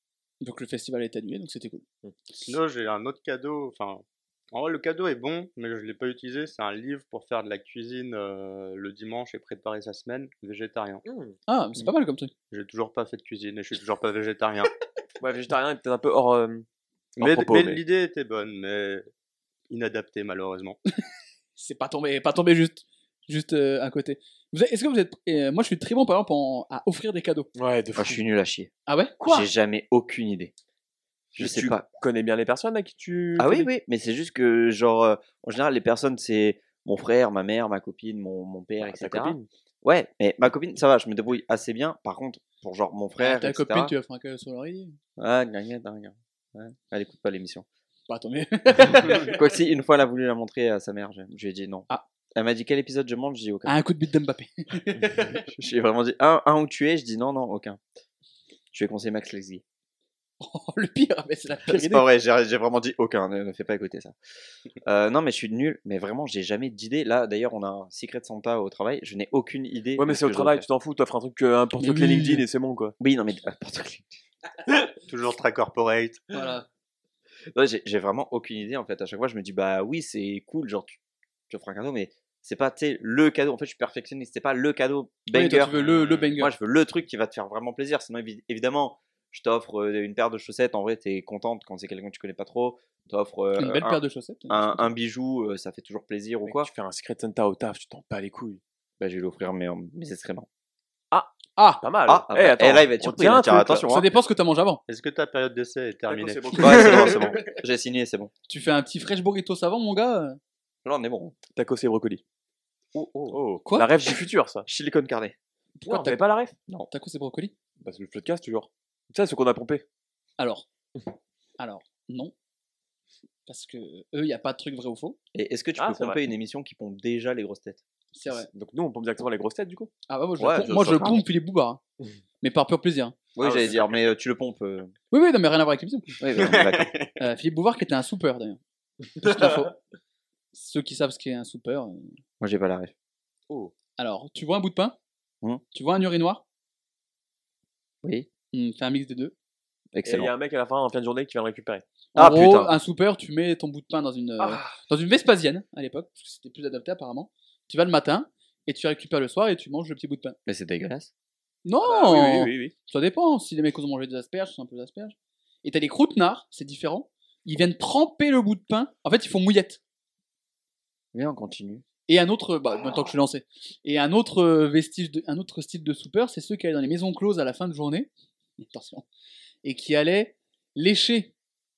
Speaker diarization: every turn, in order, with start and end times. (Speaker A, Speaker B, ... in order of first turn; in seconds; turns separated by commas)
Speaker A: 0.4-1.8, Speaker B: 2.4-11.0, Speaker C: 11.1-11.4, Speaker A: 11.5-12.3, Speaker B: 12.5-14.7, Speaker C: 15.2-16.7, Speaker B: 17.2-19.1, Speaker C: 17.2-17.8, Speaker B: 19.7-20.8, Speaker A: 21.6-27.5, Speaker C: 27.6-28.3, Speaker D: 28.0-30.5, Speaker A: 28.9-29.5, Speaker D: 31.4-31.9, Speaker C: 31.4-33.7, Speaker D: 33.4-43.9, Speaker C: 38.8-39.5, Speaker A: 43.2-45.0, Speaker D: 45.2-47.7, Speaker A: 48.1-49.4, Speaker D: 48.8-53.8, Speaker A: 53.6-55.3, Speaker D: 55.4-57.8, Speaker D: 58.7-59.6, Speaker A: 60.4-62.1, Speaker D: 61.7-64.2, Speaker D: 64.8-70.6, Speaker C: 70.0-73.0, Speaker A: 71.8-72.4, Speaker D: 73.0-74.2, Speaker B: 75.0-76.3, Speaker A: 76.3-76.7, Speaker D: 77.5-81.0, Speaker D: 81.5-94.0, Speaker A: 85.3-86.5, Speaker A: 93.6-94.9, Speaker D: 94.5-96.7, Speaker C: 96.5-98.6, Speaker D: 99.0-100.5, Speaker C: 101.1-103.9, Speaker A: 101.6-101.8, Speaker D: 102.1-104.1, Speaker A: 103.9-104.8, Speaker B: 104.9-107.0, Speaker C: 106.1-107.5, Speaker D: 106.6-108.3, Speaker A: 108.5-110.4, Speaker D: 110.8-111.4, Speaker C: 111.6-112.2, Speaker D: 112.9-113.4, Speaker C: 113.3-114.7, Speaker A: 113.7-114.0, Speaker D: 114.7-115.4, Speaker A: 115.8-116.2, Speaker C: 115.9-116.5, Speaker A: 116.9-117.5, Speaker C: 117.8-119.8, Speaker A: 120.4-120.7, Speaker A: 121.6-122.3, Speaker A: 123.5-125.2, Speaker D: 125.3-127.8, Speaker C: 125.8-126.3, Speaker A: 128.1-128.5, Speaker C: 128.5-129.9, Speaker A: 130.1-131.8, Speaker D: 130.4-131.2, Speaker A: 132.4-133.2, Speaker D: 133.4-134.9, Speaker C: 133.4-134.0, Speaker A: 135.1-136.1, Speaker D: 136.2-137.0, Speaker A: 137.2-138.6, Speaker A: 139.2-139.8, Speaker A: 140.5-142.2, Speaker D: 142.4-142.9, Speaker A: 144.0-145.0, Speaker A: 145.7-146.4, Speaker A: 148.5-149.3, Speaker D: 149.9-150.3, Speaker C: 150.1-151.8, Speaker A: 152.2-160.4, Speaker D: 152.2-152.8, Speaker C: 154.4-154.8, Speaker D: 160.5-161.1, Speaker A: 161.7-169.8, Speaker C: 161.8-162.7, Speaker D: 171.1-171.8, Speaker A: 172.1-179.1, Speaker A: 179.6-181.3